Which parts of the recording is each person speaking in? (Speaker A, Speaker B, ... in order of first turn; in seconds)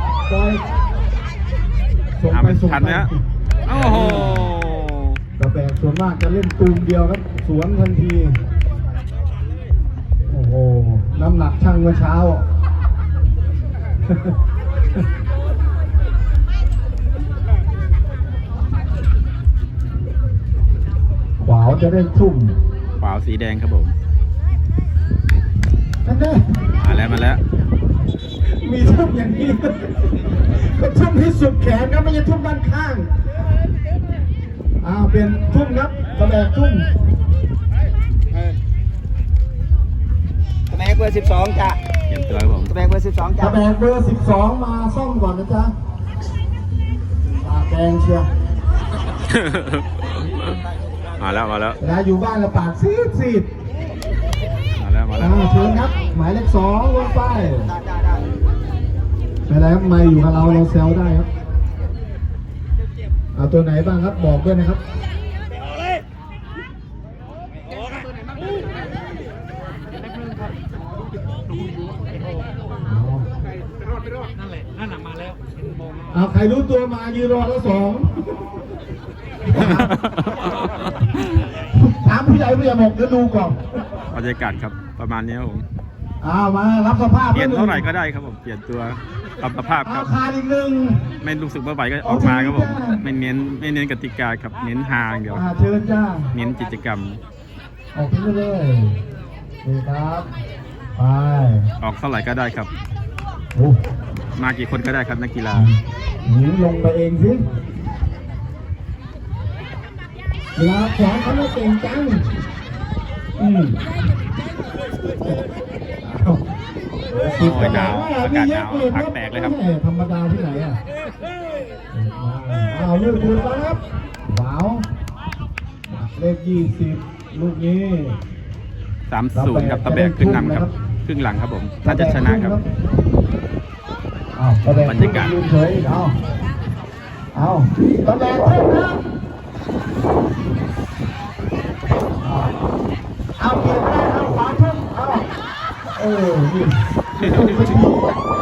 Speaker A: 0.3-0.6, 2.2-4.5, 5.4-8.4, 10.3-12.4, 21.4-22.6, 26.0-26.7, 28.5-33.1, 34.8-36.9, 43.3-45.7, 47.3-48.3, 51.8-53.5, 55.2-57.8, 59.5-61.3, 63.3-64.8, 72.8-73.3, 76.1-78.4, 79.4-80.0, 81.5-83.6, 86.2-87.9, 89.8-91.1, 92.0-93.0, 95.3-96.3, 97.9-99.0, 99.6-100.3, 101.0-101.7, 103.5-103.8, 105.5-107.4, 110.5-112.3, 113.4-113.8, 116.0-116.4, 117.1-120.8, 121.9-124.9, 125.9-128.2, 129.3-130.7, 131.8-132.6, 134.3-136.1, 137.3-139.0, 142.2-142.5, 143.4-145.3, 145.9-148.1
Speaker B: 2.3-3.1, 3.6-5.2, 23.0-23.9, 26.8-27.4, 42.1-42.8, 49.2-50.6, 51.2-51.8, 54.8-55.5, 79.5-81.4, 84.1-85.6, 87.3-90.1, 91.2-95.4, 96.3-97.2, 101.8-102.7, 104.3-105.7, 117.4-119.5, 129.1-132.6, 134.8-135.3, 147.2-147.8
Speaker C: 40.7-41.8, 42.8-43.4, 57.8-58.2